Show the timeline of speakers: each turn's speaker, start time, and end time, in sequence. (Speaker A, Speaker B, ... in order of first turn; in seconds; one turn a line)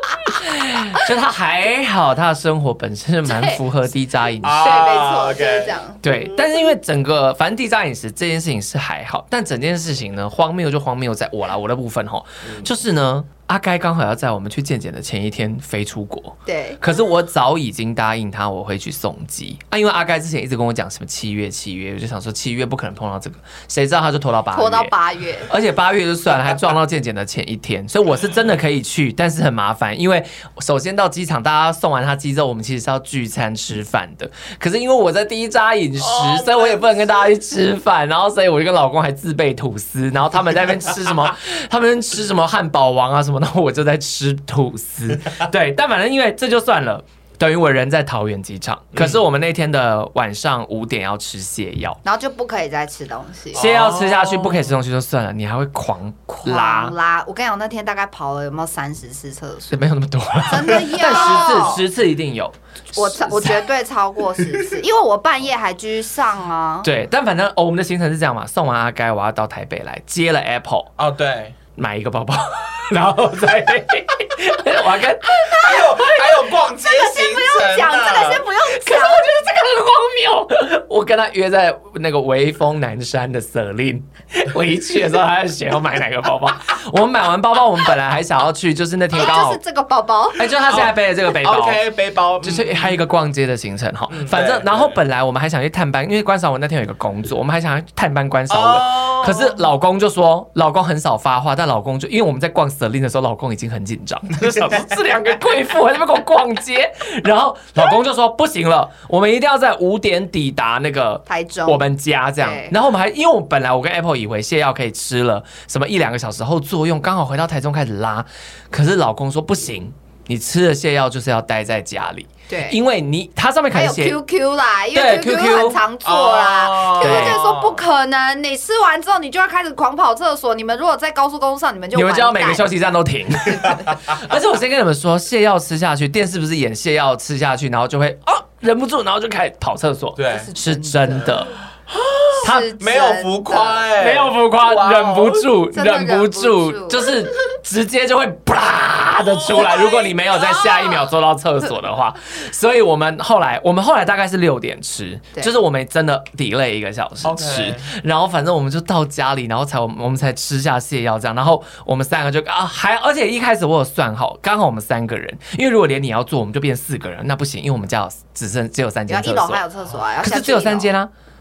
Speaker A: 0.3-4.9
Speaker B: 3.3-3.6
Speaker C: 4.4-5.8
Speaker B: 4.6-6.0
Speaker A: 6.0-24.9
Speaker B: 16.5-16.9
Speaker B: 24.5-25.5
Speaker A: 25.5-52.0
Speaker C: 36.0-37.1
Speaker C: 48.9-49.2
Speaker B: 52.0-53.7
Speaker C: 53.5-54.7
Speaker A: 53.5-56.9
Speaker B: 56.3-59.8
Speaker A: 59.7-63.7
Speaker B: 60.4-61.8
Speaker B: 63.0-66.9
Speaker A: 66.8-70.9
Speaker C: 71.0-71.6
Speaker A: 71.8-76.1
Speaker B: 75.4-75.9
Speaker C: 75.5-78.5
Speaker B: 76.7-79.3
Speaker A: 78.7-89.6
Speaker B: 89.1-90.5
Speaker A: 90.3-91.8
Speaker C: 90.7-93.0
Speaker A: 92.4-124.2
Speaker C: 94.1-95.0
Speaker C: 98.5-99.6
Speaker B: 111.3-112.8
Speaker B: 122.5-122.8
Speaker B: 123.7-132.7
Speaker A: 124.9-125.8
Speaker C: 126.0-127.8
Speaker A: 127.0-127.4
Speaker A: 131.9-141.5
Speaker B: 133.5-133.9
Speaker C: 140.2-140.5
Speaker B: 140.3-141.4
Speaker C: 141.9-145.5
Speaker B: 142.4-143.9
Speaker A: 142.4-142.7
Speaker A: 144.0-169.6
Speaker B: 145.7-147.1
Speaker B: 149.5-151.0
Speaker C: 157.2-157.9
Speaker B: 169.1-170.9
Speaker A: 170.2-171.1